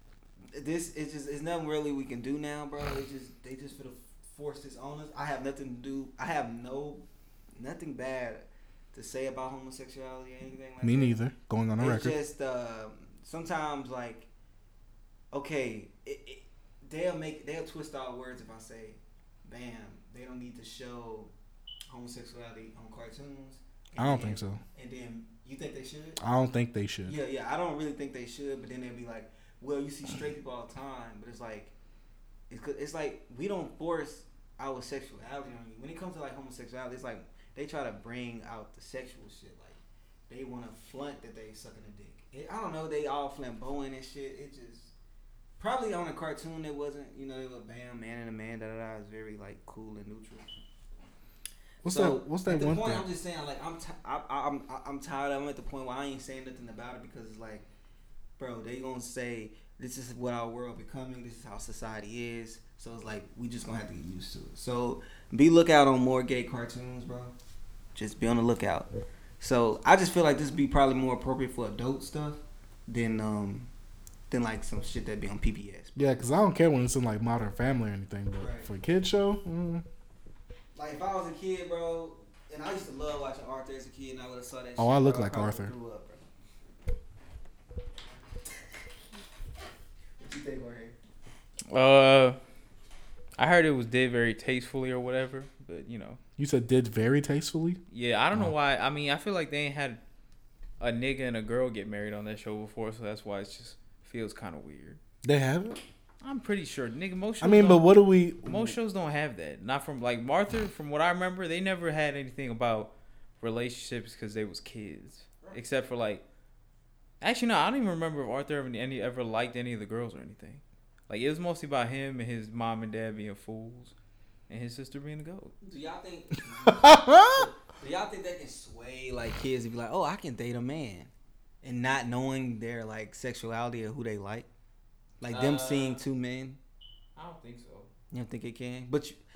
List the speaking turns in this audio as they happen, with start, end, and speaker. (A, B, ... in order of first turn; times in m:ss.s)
0:00.5-0:07.0 A
0:07.6-0:11.2 A
0:10.8-0:12.2 B
0:11.8-0:14.3 A
0:15.3-0:21.3 A
0:21.9-0:26.2 A
0:24.0-0:24.6 B
0:26.2-0:27.2 B
0:27.1-0:31.7 A
0:32.5-0:44.9 A
0:45.6-0:50.5 A
0:51.8-0:53.1 B
0:51.8-0:57.7 A
0:58.4-1:07.3 A
1:08.0-1:13.7 A
1:14.3-1:16.0 A
1:16.0-1:19.8 B
1:18.4-1:18.7 A
1:20.8-1:26.2 A
1:24.8-1:25.7 B
1:30.2-1:31.0 A
1:31.7-1:32.4 C
1:33.4-1:36.2 C
1:36.4-1:37.8 B
1:37.9-1:40.0 C
1:40.8-1:45.0 C
1:45.2-1:45.8 B
1:46.2-1:47.9 C
1:47.4-1:48.8 B
1:48.4-1:56.2 C
1:57.2-2:04.0 C
2:04.5-2:05.6 C
2:05.6-2:11.1 A
2:06.6-2:07.5 B
2:11.6-2:14.5 A
2:15.2-2:16.6 A
2:15.3-2:16.0 C
2:17.2-2:17.9 C
2:18.1-2:19.2 A